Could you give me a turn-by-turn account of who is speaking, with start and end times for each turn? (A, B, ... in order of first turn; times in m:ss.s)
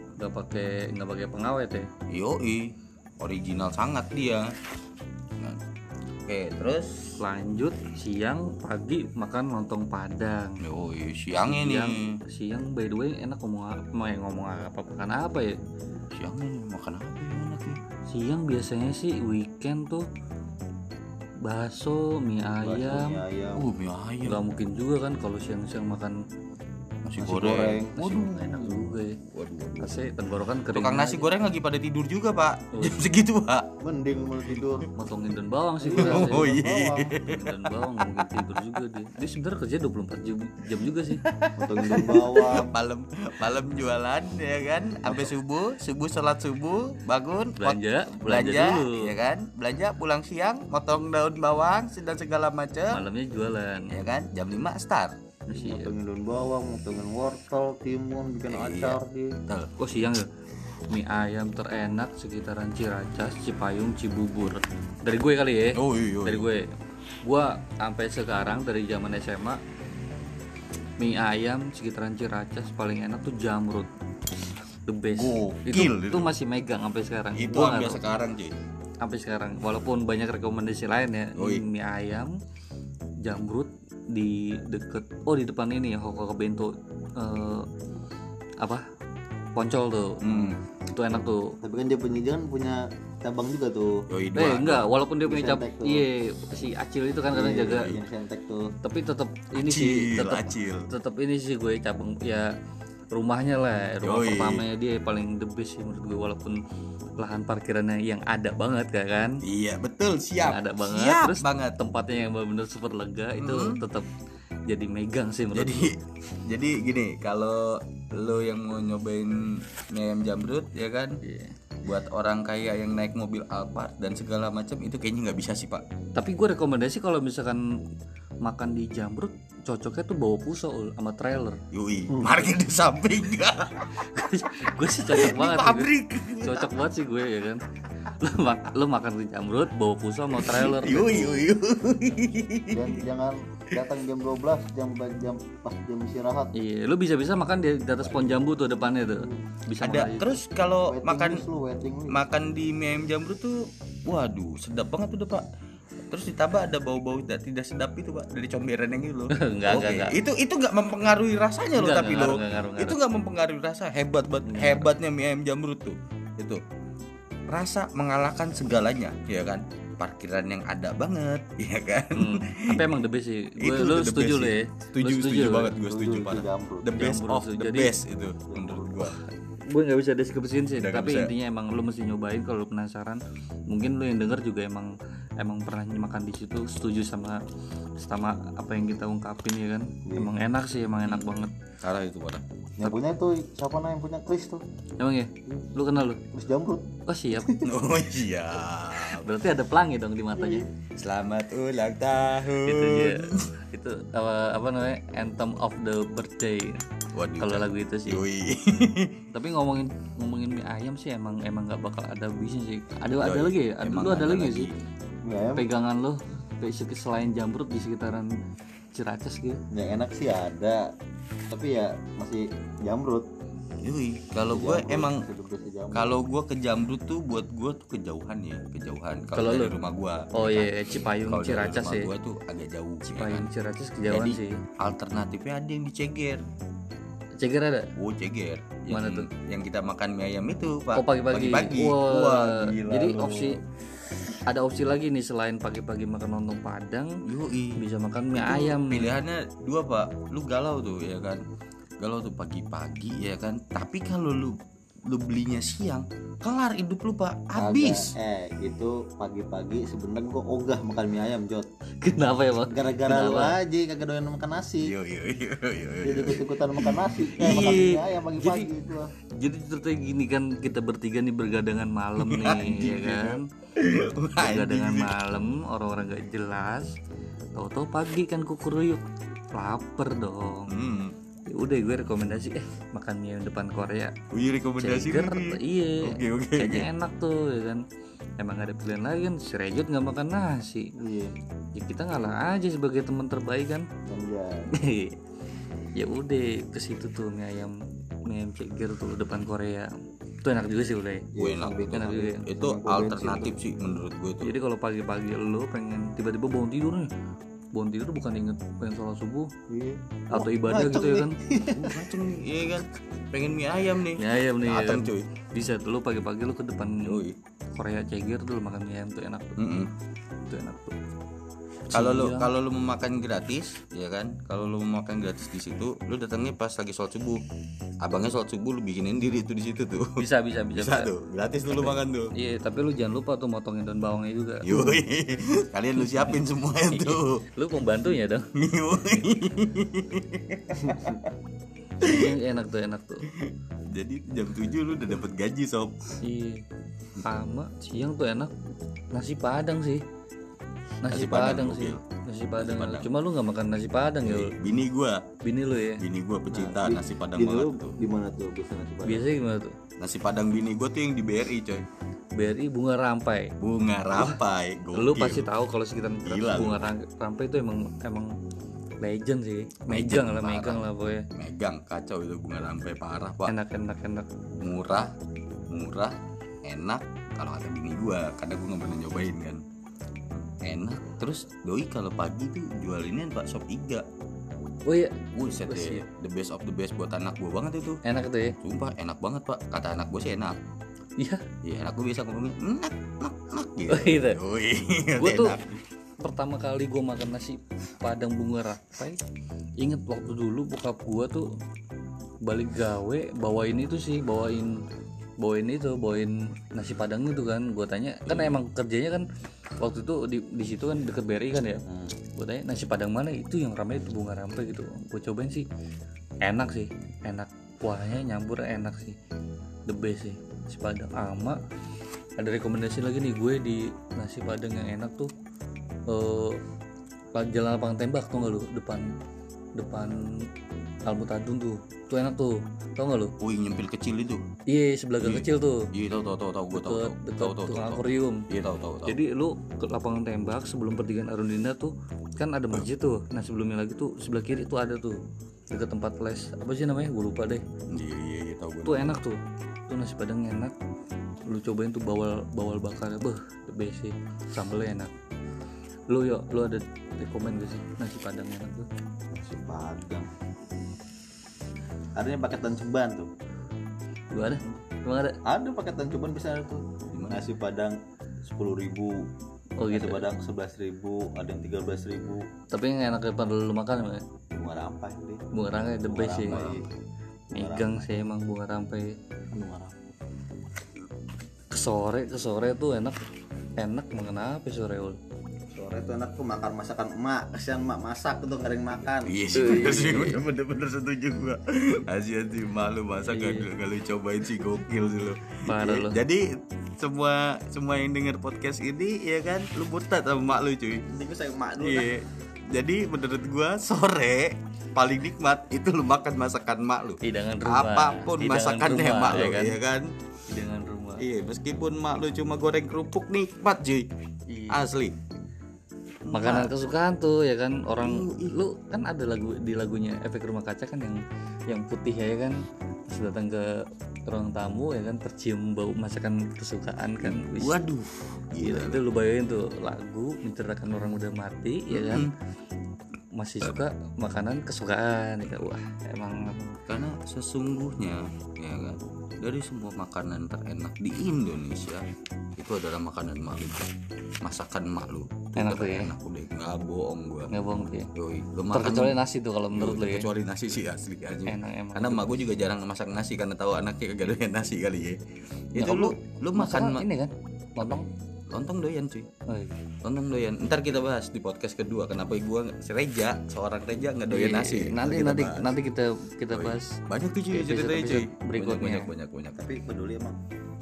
0:00.2-0:01.9 A
0:02.1-0:04.5 B
0:06.3-0:07.2 B
0:07.2-0:10.6 A
0:10.6-0:12.2 B
0:11.4-0:15.6 A
0:16.2-0:17.8 B
0:18.1-0:20.0 A
0:21.4-0:23.2 A
0:22.6-0:23.7 C
0:23.6-0:24.4 B
0:24.2-0:26.2 A
0:27.0-0:30.1 B
0:27.2-0:28.1 C
0:27.3-0:29.2 A
0:29.8-0:31.3 A
0:30.7-0:33.7 B
0:32.7-0:33.0 A
0:33.8-0:34.9 C
0:35.0-0:41.2 A
0:35.8-0:37.1 C
0:36.0-0:38.8 B
0:41.1-0:53.0 B
0:41.6-0:42.7 C
0:45.0-0:45.3 A
0:47.6-0:49.0 A
0:52.9-0:53.9 A
0:53.9-0:55.1 B
0:55.5-0:55.9 A
0:55.5-0:59.4 C
0:58.5-0:59.7 B
0:59.8-1:00.3 A
1:00.9-1:06.7 A
1:05.7-1:06.5 B
1:07.2-1:09.6 A
1:11.0-1:13.9 A
1:14.9-1:18.0 A
1:15.1-1:16.3 B
1:17.3-1:18.6 B
1:19.0-1:22.4 A
1:21.4-1:21.6 B
1:23.2-1:27.7 A
1:29.6-1:30.2 A
1:30.2-1:30.6 B
1:30.8-1:31.6 A
1:31.6-1:34.0 C
1:34.1-1:34.9 B
1:34.3-1:37.9 A
1:35.3-1:36.1 C
1:37.3-1:38.7 C
1:37.7-1:38.0 B
1:38.8-1:42.5 A
1:39.6-1:40.9 B
1:43.1-1:46.6 A
1:44.0-1:44.6 B
1:47.2-1:49.4 A
1:49.4-1:51.8 B
1:50.4-1:54.1 A
1:53.4-1:53.8 B
1:54.7-1:55.9 A
1:55.5-2:01.2 B
2:01.2-2:01.5 A
2:01.8-2:05.8 B
2:06.2-2:07.6 A
2:08.4-2:11.6 A
2:11.7-2:16.8 B
2:14.0-2:21.5 A
2:20.3-2:23.0 B
2:22.7-2:26.5 C
2:26.5-2:30.3 A
2:28.0-2:28.5 B
2:29.8-2:31.4 B
2:30.9-2:32.3 C
2:32.1-2:35.5 B
2:36.1-2:46.6 B
2:39.3-2:40.2 A
2:41.7-2:43.0 A
2:44.4-2:44.9 A
2:47.5-2:52.9 B
2:52.1-2:55.7 A
2:53.6-2:59.2 B
2:55.8-2:56.9 C
2:57.0-2:57.9 A
2:58.5-2:58.9 C
2:59.0-3:07.4 A
3:00.8-3:01.3 B
3:08.0-3:11.5 A
3:10.0-3:10.3 C
3:11.0-3:11.3 B
3:11.8-3:12.4 B
3:12.8-3:14.6 C
3:15.0-3:16.2 A
3:16.3-3:16.9 C
3:17.0-3:17.6 A
3:17.6-3:19.2 B
3:19.0-3:20.7 A
3:20.4-3:20.6 C
3:21.0-3:23.5 B
3:22.6-3:26.8 A
3:27.1-3:29.2 B
3:27.4-3:28.2 A
3:29.3-3:34.7 A
3:33.2-3:34.7 B
3:35.3-3:35.7 C
3:35.6-3:38.3 A
3:38.9-3:39.6 A
3:39.7-3:40.8 C
3:41.5-3:43.3 C
3:43.8-3:45.2 B
3:44.4-3:46.2 C
3:45.9-3:53.5 B
3:49.3-3:49.7 A
3:50.3-3:52.1 A
3:53.0-3:54.6 A
3:54.1-3:56.4 B
3:57.4-3:57.9 A
3:58.0-4:03.6 B
3:58.9-3:59.3 A
4:00.9-4:03.6 A
4:04.4-4:07.2 A
4:07.3-4:07.8 B
4:07.8-4:09.1 A
4:08.3-4:11.4 B
4:12.0-4:18.1 B
4:17.6-4:21.7 C
4:22.0-4:23.6 A
4:22.6-4:24.9 C
4:24.8-4:28.1 B
4:26.0-4:29.1 C
4:28.4-4:28.7 A
4:29.3-4:33.4 A
4:32.2-4:35.1 B
4:34.4-4:37.0 A
4:37.6-4:40.7 A
4:40.7-4:41.1 B
4:41.5-4:44.2 A
4:44.3-4:46.9 B
4:44.8-4:47.8 A
4:48.4-4:50.9 A
4:51.0-4:51.4 C
4:51.7-4:53.9 A
4:54.0-4:54.7 C
4:54.7-4:55.2 A
4:56.0-4:59.9 A
5:00.4-5:01.3 A
5:01.3-5:03.6 C
5:01.4-5:04.5 B
5:01.9-5:02.5 A
5:04.4-5:07.1 A
5:07.7-5:09.5 A
5:09.7-5:12.1 C
5:10.3-5:11.4 A
5:11.7-5:15.3 B
5:14.2-5:17.2 A
5:17.0-5:17.4 B
5:17.7-5:19.6 A
5:19.6-5:19.9 B
5:20.4-5:21.0 A
5:21.9-5:22.5 A
5:21.9-5:27.4 B
5:28.0-5:32.3 B
5:30.2-5:31.1 A
5:31.7-5:34.8 A
5:34.6-5:37.4 B
5:36.0-5:38.5 A
5:38.6-5:41.3 B
5:42.0-5:42.3 B
5:42.0-5:43.3 A
5:43.3-5:46.2 B
5:46.2-5:46.6 A
5:47.2-5:48.5 A
5:49.1-5:50.0 A
5:51.0-5:54.6 A
5:51.1-5:52.0 B
5:52.6-5:53.1 B
5:54.2-5:55.2 B
5:55.4-5:56.0 A
5:56.0-5:58.0 B
5:56.5-5:59.3 C
5:59.0-5:59.8 A
6:00.0-6:01.8 B
6:02.4-6:03.5 A
6:03.6-6:05.5 B
6:05.0-6:08.3 A
6:06.2-6:06.9 B
6:09.0-6:11.3 A
6:09.9-6:10.8 B
6:11.3-6:13.5 B
6:13.4-6:14.4 A
6:14.6-6:15.1 B
6:15.7-6:19.6 B
6:20.3-6:24.0 B
6:24.8-6:26.0 A
6:25.3-6:28.0 B
6:28.0-6:28.6 A
6:28.6-6:30.6 B
6:31.2-6:31.4 A
6:31.6-6:35.8 B
6:33.9-6:34.4 A
6:35.2-6:35.6 A
6:36.2-6:39.2 A
6:39.8-6:41.5 A
6:42.4-6:44.8 A
6:45.4-6:49.3 A
6:48.3-6:48.6 B
6:49.8-6:55.7 A
6:51.9-6:52.1 C
6:56.4-6:59.2 A
6:59.9-7:01.6 A
7:02.4-7:05.3 A
7:06.1-7:06.6 A
7:07.3-7:09.1 A
7:09.8-7:10.2 A
7:11.0-7:13.3 A
7:13.4-7:14.4 B
7:14.7-7:15.9 A
7:15.2-7:19.2 B
7:16.7-7:18.4 A
7:19.0-7:25.2 A
7:25.7-7:27.6 A
7:27.9-7:29.2 B
7:28.8-7:30.7 A
7:31.4-7:35.1 A
7:36.1-7:38.9 A
7:39.3-7:40.3 C
7:42.2-7:43.3 C
7:44.3-7:45.4 A
7:45.4-7:49.2 C
7:47.1-7:47.4 B
7:49.8-7:50.2 A
7:49.9-7:52.4 C
7:52.7-7:54.2 A
7:54.5-7:55.4 C
7:55.5-7:56.8 A
7:56.0-7:56.9 C
7:56.2-7:56.8 B
7:57.5-7:58.0 C
7:57.5-7:59.1 A
7:59.5-8:00.1 C
8:01.7-8:03.2 A
8:03.8-8:05.2 A
8:05.7-8:09.3 C
8:09.3-8:21.1 B
8:09.5-8:10.4 A
8:13.3-8:13.7 A
8:15.7-8:16.2 A
8:21.1-8:22.1 C
8:21.8-8:30.1 B
8:27.2-8:29.8 A
8:30.5-8:31.2 A
8:31.2-8:34.1 B
8:34.5-8:34.8 A
8:34.7-8:35.1 B
8:36.3-8:36.7 B
8:36.3-8:47.8 A
8:38.0-8:38.6 B
8:47.2-8:49.0 B
8:48.6-8:52.3 A
8:51.9-8:52.3 B
8:53.4-8:56.8 A
8:56.9-9:02.0 B
9:02.6-9:03.9 B
9:04.4-9:07.5 B
9:05.6-9:06.1 A
9:07.5-9:08.1 A
9:08.1-9:09.2 B
9:08.7-9:10.3 A
9:09.7-9:15.2 B
9:11.4-9:12.3 A
9:15.7-9:17.0 B
9:15.8-9:18.0 A
9:17.9-9:19.3 B
9:19.5-9:19.8 A
9:20.0-9:25.8 B
9:24.3-9:27.0 A
9:26.5-9:29.7 B
9:27.5-9:29.1 A
9:29.6-9:30.4 C